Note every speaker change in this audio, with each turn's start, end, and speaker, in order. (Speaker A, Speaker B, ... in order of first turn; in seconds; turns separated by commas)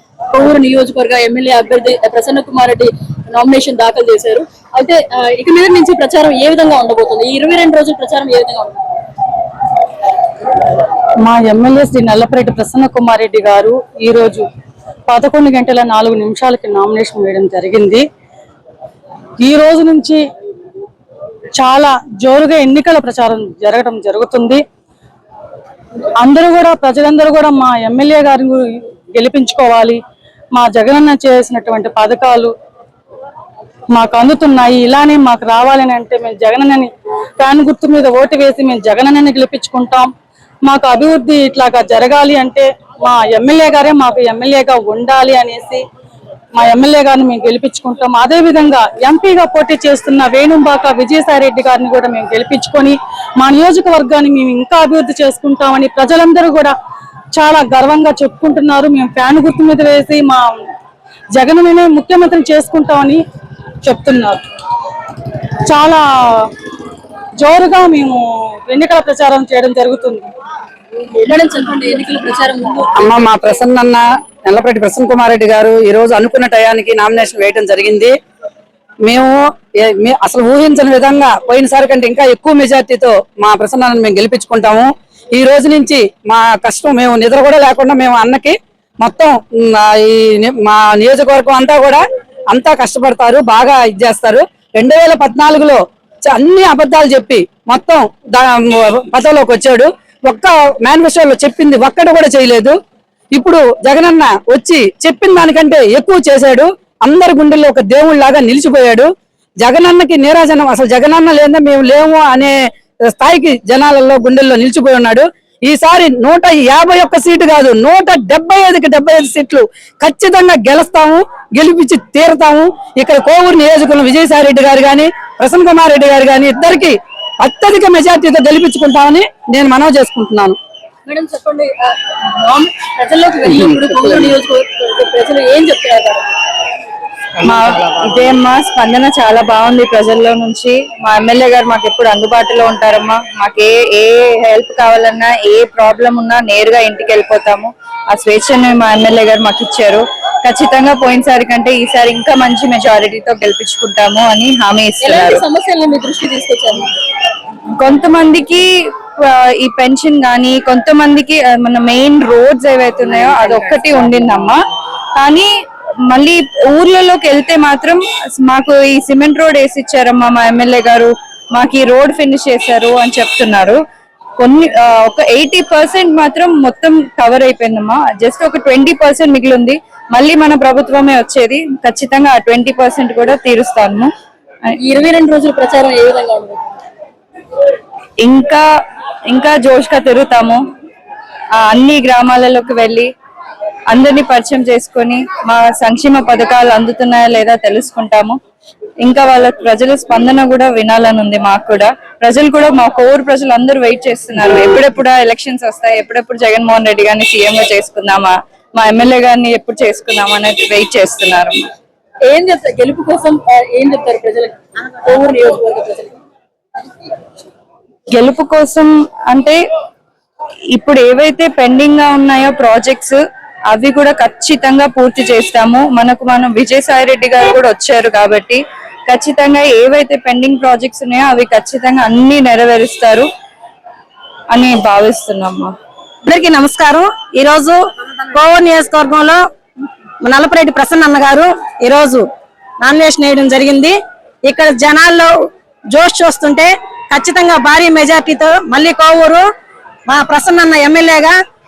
Speaker A: 0.3-8.9, Speaker B: 11.2-14.5, Speaker B: 15.1-18.1, Speaker B: 19.4-20.2, Speaker B: 21.6-24.6, Speaker B: 26.2-30.0, Speaker B: 30.5-32.5, Speaker B: 33.9-40.1, Speaker B: 40.6-45.8, Speaker B: 46.5-56.7, Speaker B: 57.3-60.6, Speaker B: 61.3-63.2, Speaker B: 63.8-64.4, Speaker B: 65.7-66.5, Speaker B: 67.4-70.3, Speaker A: 71.1-73.3, Speaker C: 73.0-78.1, Speaker C: 79.1-79.4, Speaker C: 79.9-102.8, Speaker C: 103.3-109.1, Speaker C: 109.6-112.6, Speaker C: 113.1-130.6, Speaker A: 131.1-136.4, Speaker C: 133.5-134.3, Speaker D: 137.4-155.4, Speaker A: 155.0-156.9, Speaker D: 157.8-158.7, Speaker D: 159.2-164.6, Speaker D: 165.2-165.5, Speaker D: 166.1-173.8, Speaker D: 174.4-184.1, Speaker A: 184.8-186.7, Speaker D: 188.2-188.6, Speaker D: 189.3-190.6, Speaker D: 191.6-193.1, Speaker D: 193.9-198.4, Speaker D: 199.0-211.7, Speaker A: 212.3-216.1, Speaker D: 218.1-219.6, Speaker D: 220.7-223.2, Speaker D: 223.7-233.3, Speaker D: 234.5-235.7, Speaker E: 236.3-237.8, Speaker E: 238.3-239.4, Speaker E: 240.2-242.2, Speaker E: 242.8-243.9, Speaker E: 244.5-245.3, Speaker E: 245.9-249.4, Speaker E: 250.1-251.4